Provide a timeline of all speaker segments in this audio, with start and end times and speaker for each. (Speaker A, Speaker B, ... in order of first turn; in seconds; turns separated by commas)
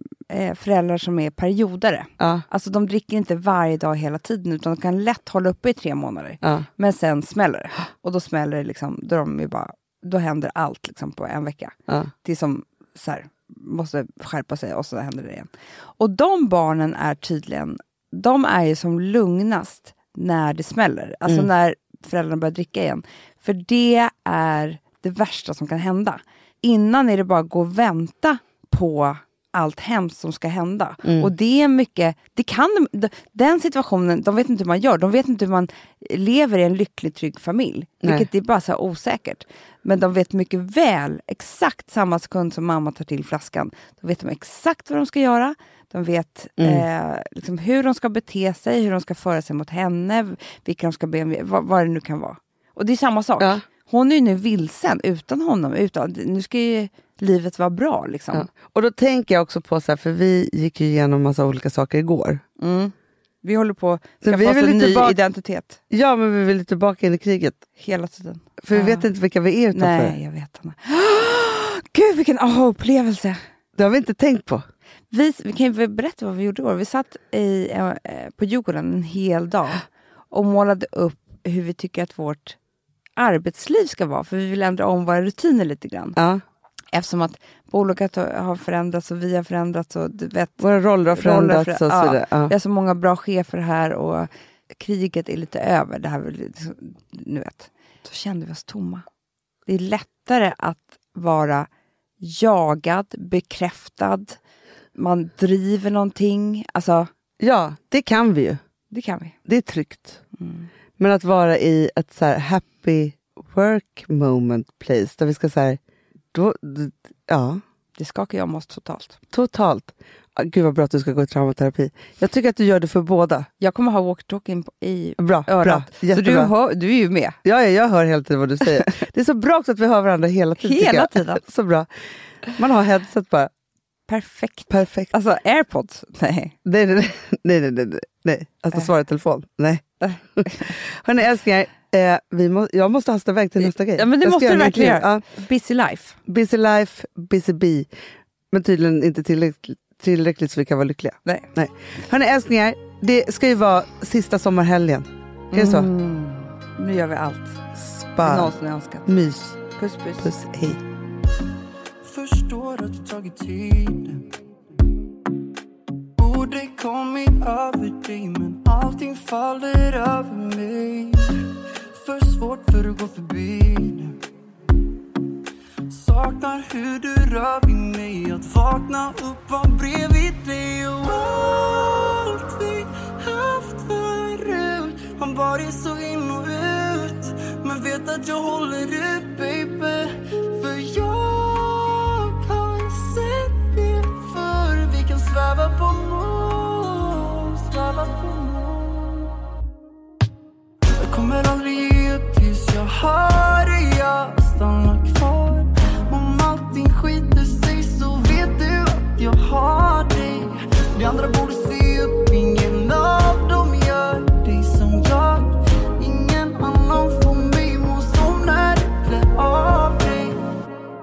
Speaker A: 0.3-58.5, Speaker B: 2.2-2.4, Speaker B: 31.0-31.3, Speaker B: 46.6-46.8, Speaker B: 58.3-62.4, Speaker A: 62.6-65.8, Speaker B: 64.2-65.2, Speaker B: 65.9-67.6, Speaker A: 67.8-69.1, Speaker B: 68.6-70.2, Speaker A: 69.7-73.4, Speaker B: 73.8-74.6, Speaker A: 75.1-82.6, Speaker A: 83.2-86.2, Speaker B: 86.2-86.4, Speaker A: 86.9-99.0, Speaker B: 90.6-92.5, Speaker A: 99.7-101.7, Speaker A: 102.2-104.4, Speaker A: 104.9-107.1, Speaker B: 107.4-108.6, Speaker A: 108.9-109.3, Speaker B: 109.5-110.2, Speaker A: 110.4-110.7, Speaker B: 111.0-115.8, Speaker B: 116.3-117.6, Speaker A: 118.0-119.2, Speaker B: 119.3-123.5, Speaker A: 123.6-127.4, Speaker B: 125.2-126.5, Speaker B: 127.4-131.9, Speaker A: 130.6-131.4, Speaker B: 132.6-133.5, Speaker A: 134.1-136.5, Speaker B: 134.7-135.1, Speaker B: 136.6-145.2, Speaker A: 140.0-140.7, Speaker A: 143.6-146.2, Speaker B: 146.2-147.9, Speaker B: 148.5-155.9, Speaker A: 155.5-157.6, Speaker B: 157.7-158.5, Speaker A: 158.2-159.1, Speaker B: 159.1-159.6, Speaker A: 159.7-160.3, Speaker B: 160.2-160.8, Speaker C: 162.0-164.3, Speaker C: 166.2-174.2, Speaker C: 175.9-199.4, Speaker C: 200.9-220.4